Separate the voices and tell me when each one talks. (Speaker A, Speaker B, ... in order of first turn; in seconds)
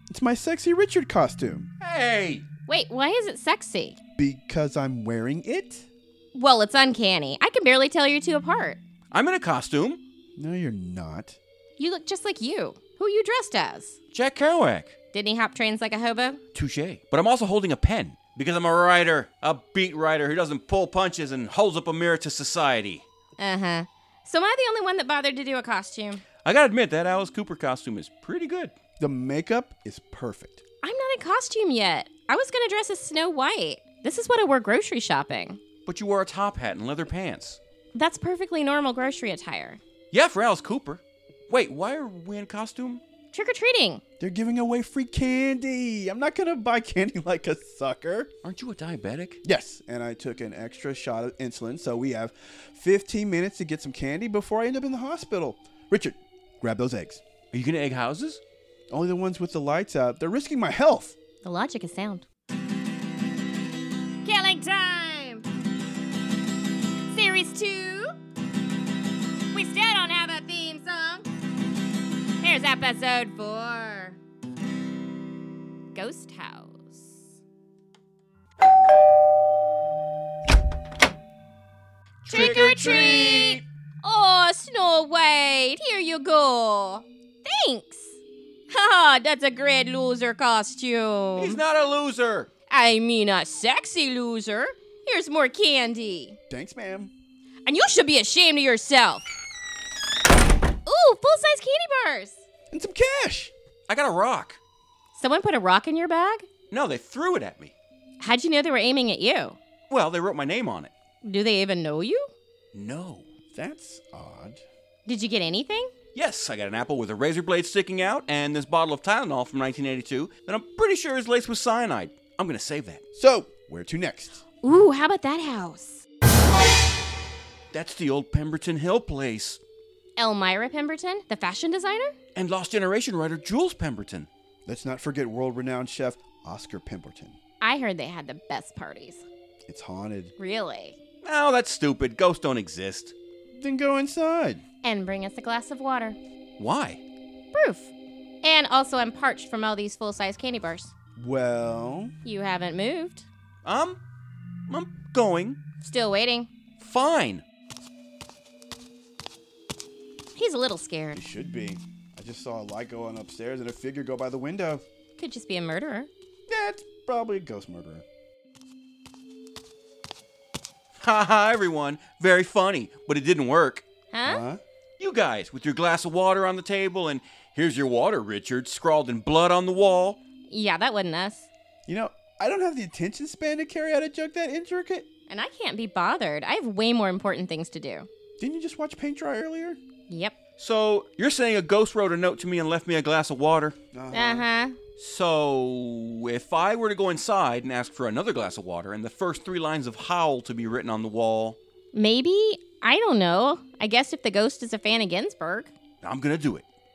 Speaker A: 0.1-1.7, 4.2-5.9, 10.4-11.4, 29.0-30.6, 44.2-48.3, 49.4-57.2, 58.9-61.1, 96.5-97.1, 102.7-103.5, 113.5-114.6, 123.1-124.4, 134.7-137.4, 139.7-140.3, 143.5-144.6, 151.2-152.1, 161.1-164.8, 166.5-168.0, 174.2-174.6, 181.9-185.1, 188.4-189.8, 193.9-194.4
Speaker B: 1.8-2.4, 9.1-10.0, 14.1-14.9, 16.5-23.0, 26.4-28.7, 35.9-37.6, 40.1-43.0, 48.4-49.4, 57.5-58.4, 82.2-83.6, 91.3-92.5, 103.9-104.6, 106.7-107.7, 109.9-110.9, 112.7-113.2, 116.1-123.0, 127.7-129.6, 132.3-134.3, 141.2-143.1, 146.6-147.0, 153.6-154.0, 154.7-155.6, 156.8-157.4, 171.0-173.8, 175.0-180.2, 190.6-193.8, 195.0-201.6, 206.0-206.6
Speaker C: 2.7-4.0, 6.3-8.8, 11.8-14.0, 15.1-16.4, 23.4-26.2, 30.8-35.6, 37.9-39.8, 43.3-44.0, 61.4-62.2, 64.2-65.4, 67.1-68.1, 69.5-71.2, 72.4-74.2, 75.9-77.2, 82.3-88.1, 88.7-91.6, 92.7-96.3, 97.6-99.3, 100.8-102.4, 105.1-106.5, 108.2-109.6, 111.2-112.3, 115.0-115.9, 124.6-126.0, 130.2-132.1, 137.6-139.2, 140.4-140.9, 144.8-146.2, 147.5-147.9, 148.4-150.9, 152.2-153.3, 155.8-156.5, 160.3-161.2, 165.2-166.1, 174.1-174.4, 180.5-181.5, 185.3-188.1, 190.1-190.3, 194.1-194.8, 201.9-205.7